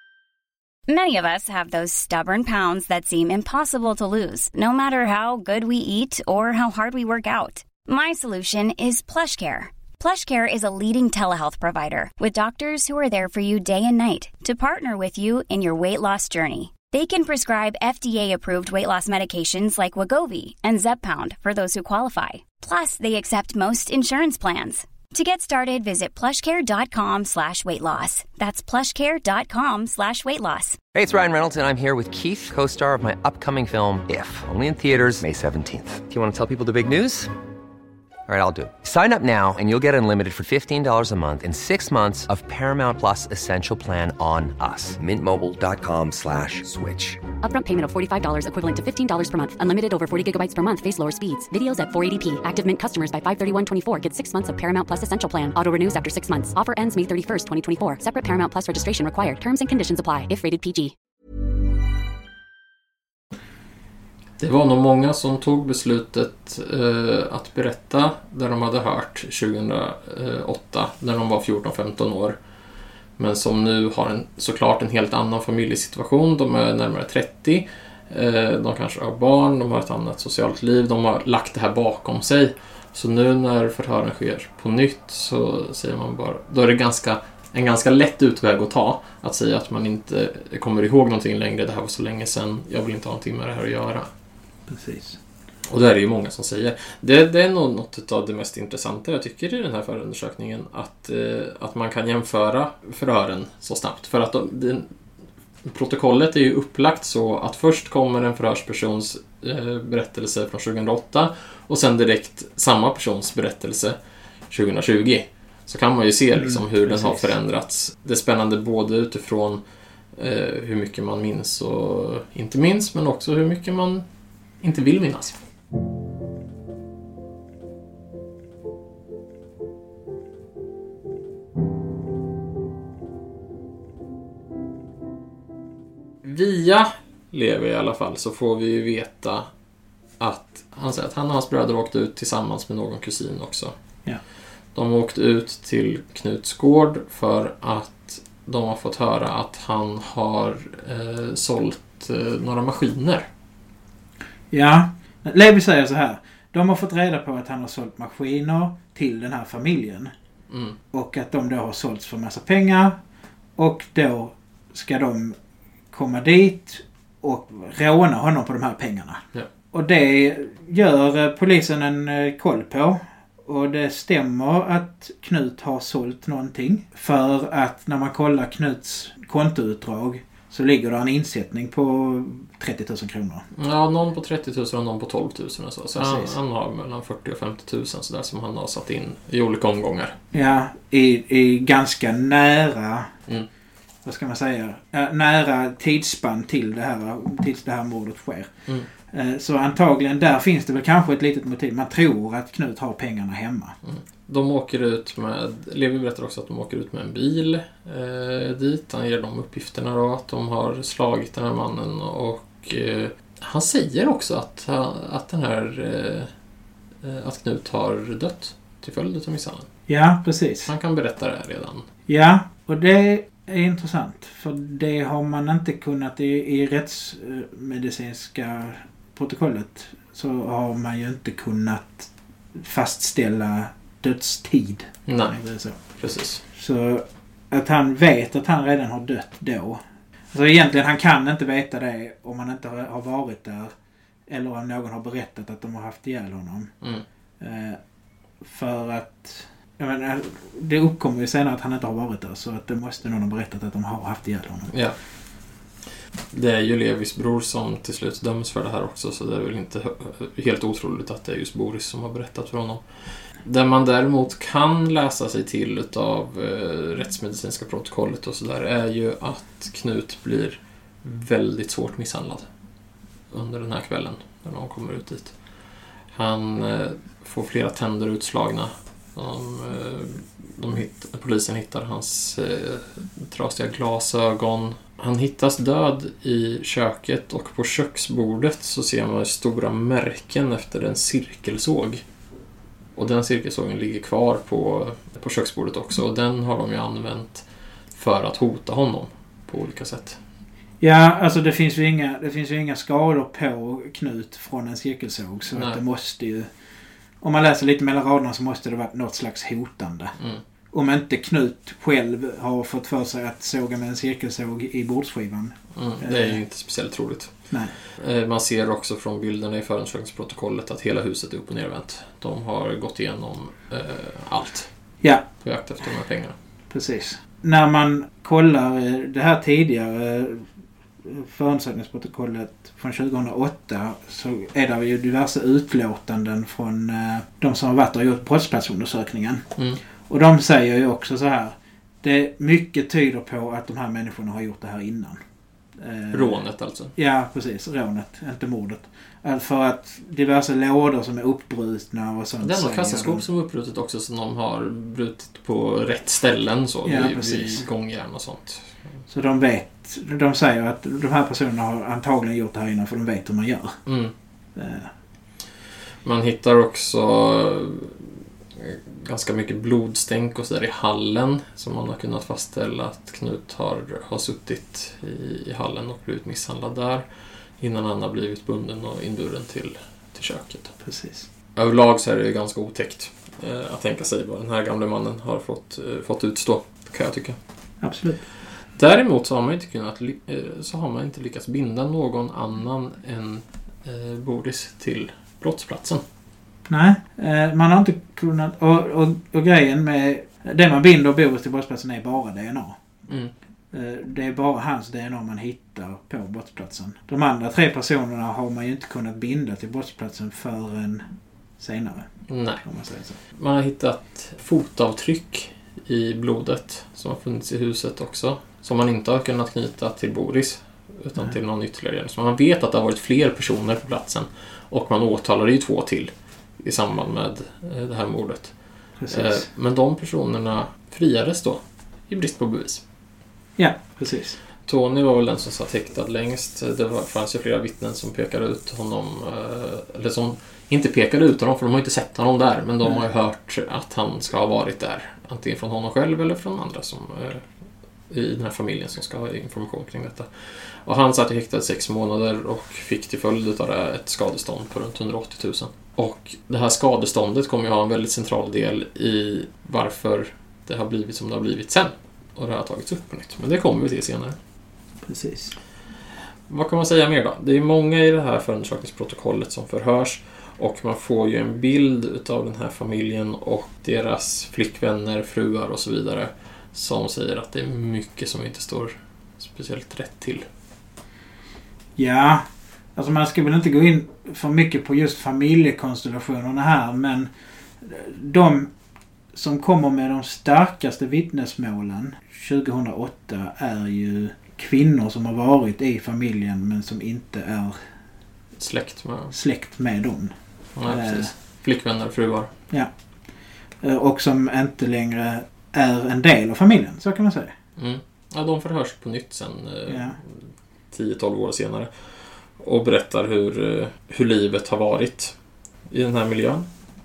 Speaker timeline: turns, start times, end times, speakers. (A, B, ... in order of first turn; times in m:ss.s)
0:00.9-0:30.8 A
0:31.0-0:37.3 B
0:38.3-0:47.2 B
0:47.4-1:00.9 C
1:04.4-1:12.4 D
1:13.2-1:34.1 D
1:34.7-1:35.2 E
1:35.7-1:44.9 D
1:45.6-1:54.0 D
1:54.5-1:59.6 D
1:56.3-1:57.3 E
2:00.2-2:04.0 D
2:04.6-2:05.4 D
2:16.2-2:19.5 D
2:20.2-2:23.8 D
2:24.7-2:33.3 D
2:34.5-2:40.1 E
2:40.5-2:40.8 D
2:40.9-2:43.0 E
2:43.6-2:45.4 E
2:45.9-3:03.5 E
3:03.6-3:10.2 D
3:06.0-3:06.4 E
3:10.3-3:13.1 E
3:14.0-3:23.8 E
3:23.8-3:36.3 D
3:37.0-3:39.7 D
3:39.9-3:40.7 E
3:40.7-3:41.9 D
3:42.1-3:55.8 E
3:55.1-3:56.4 D
3:56.5-3:59.8 E
4:00.3-4:03.7 E
4:04.3-4:06.7 E
4:07.4-4:07.8 E
4:08.4-4:14.7 E
4:14.7-4:15.0 D
4:16.3-4:32.5 D
4:33.3-4:35.3 D
4:36.1-4:52.0 D
4:53.0-5:00.2 D
5:00.8-5:06.5 E
5:05.5-5:05.8 D
5:07.2-5:10.2 E
5:10.7-5:16.4 E
5:15.8-5:24.7 D
5:17.5-5:17.8 E
5:25.3-5:26.4 D
5:26.7-5:30.5 E
5:31.0-5:39.5 E
5:39.6-5:39.8 D
5:40.1-5:45.2 E
5:45.8-5:46.4 E
5:46.1-5:46.9 D
5:47.0-5:53.2 E
5:52.4-5:58.7 D
5:56.8-5:57.7 E
5:59.1-6:03.8 E
6:03.9-6:04.1 D
6:04.6-6:04.9 E
6:06.0-6:17.1 D
6:17.6-6:20.8 D
6:20.8-6:21.3 E
6:21.6-6:27.4 D
6:27.8-6:28.2 E
6:28.7-6:36.0 D
6:36.7-6:42.8 E
6:43.1-6:43.3 D
6:43.7-6:51.0 E
6:51.6-6:52.1 E
6:52.3-6:52.6 D
6:52.6-6:53.2 E
6:53.3-7:08.5 D
7:09.0-7:09.5 E
7:09.1-7:12.8 D
7:13.6-7:14.4 E
7:14.7-7:27.5 D
7:28.1-7:44.4 D
7:45.0-7:45.6 E
7:46.5-8:00.5 D
8:02.0-8:02.4 E
8:03.0-8:07.3 E
8:07.8-8:08.7 E
8:09.3-8:17.8 E
8:18.6-8:19.4 D
8:19.3-8:20.3 E
8:20.8-8:22.5 D
8:20.9-8:21.3 E
8:23.8-8:27.5 E
8:27.8-8:35.4 D
8:29.9-8:30.2 E
8:35.9-8:36.7 D